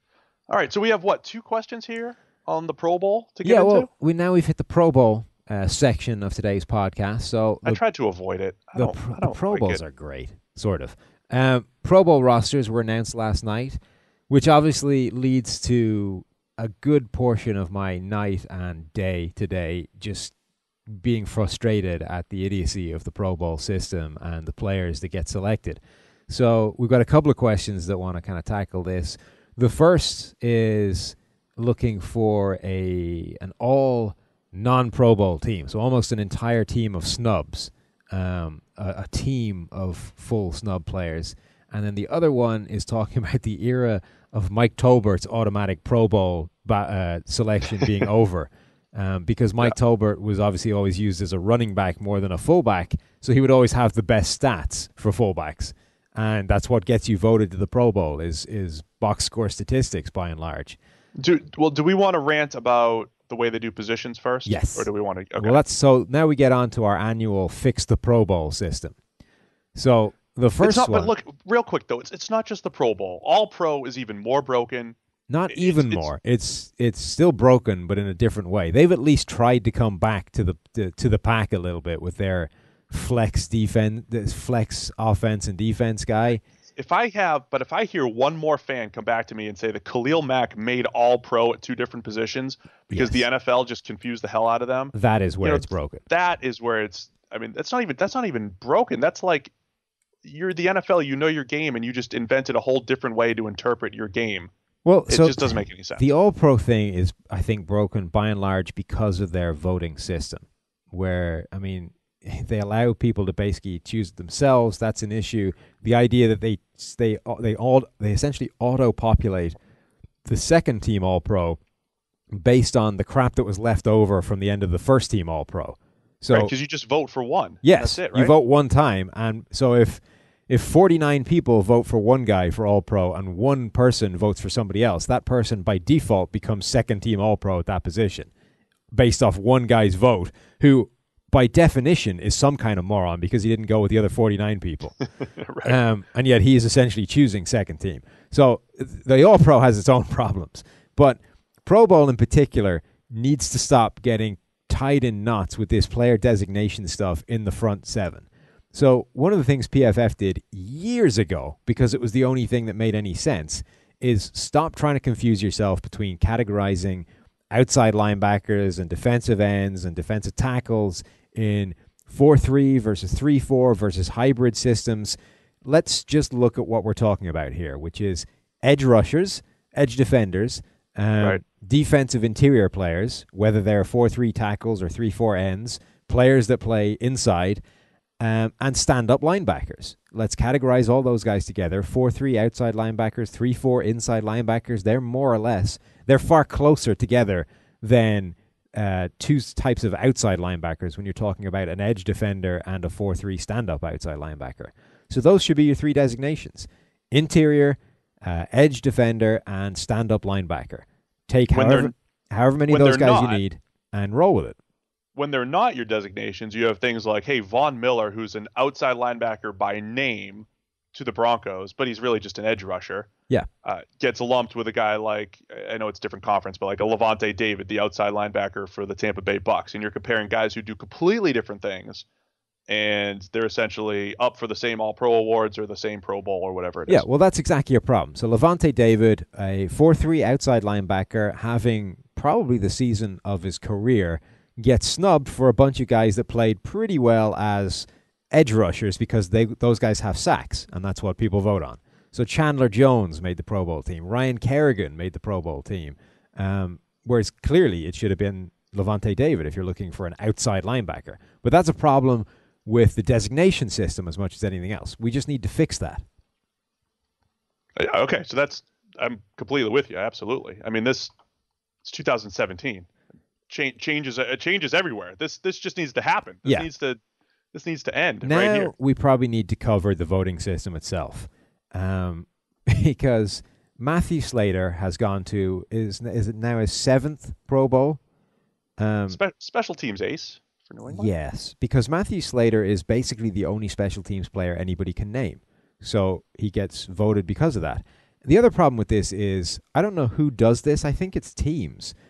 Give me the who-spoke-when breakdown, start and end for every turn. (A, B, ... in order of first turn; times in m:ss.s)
0:00.5-0:03.9 A
0:03.4-0:07.8 B
0:07.6-0:09.8 A
0:08.8-0:20.3 B
0:20.9-1:00.8 B
1:01.2-1:05.6 A
1:04.4-1:09.0 B
1:09.7-1:11.1 B
1:10.6-1:15.0 A
1:15.3-1:26.4 B
1:15.5-1:16.1 A
1:26.8-1:39.5 A
1:32.9-1:33.2 B
1:34.9-1:36.0 B
1:40.2-1:44.5 A
1:44.8-1:59.6 B
1:45.1-1:46.0 A
2:00.2-2:01.6 B
2:02.3-2:06.5 B
2:06.3-2:08.3 A
2:07.6-2:18.3 B
2:18.9-2:25.0 B
2:25.2-2:25.8 A
2:25.6-3:07.6 B
3:08.2-3:34.6 B
3:31.5-3:31.9 A
3:32.7-3:33.4 A
3:35.2-3:43.1 A
3:43.6-3:52.0 A
3:52.7-3:57.0 A
3:56.9-4:26.0 B
4:27.8-4:31.1 A
4:31.8-4:32.9 A
4:33.5-4:37.0 A
4:37.5-4:38.7 A
4:38.2-4:48.0 B
4:48.8-4:49.2 B
4:49.1-4:51.1 A
4:50.9-5:01.9 B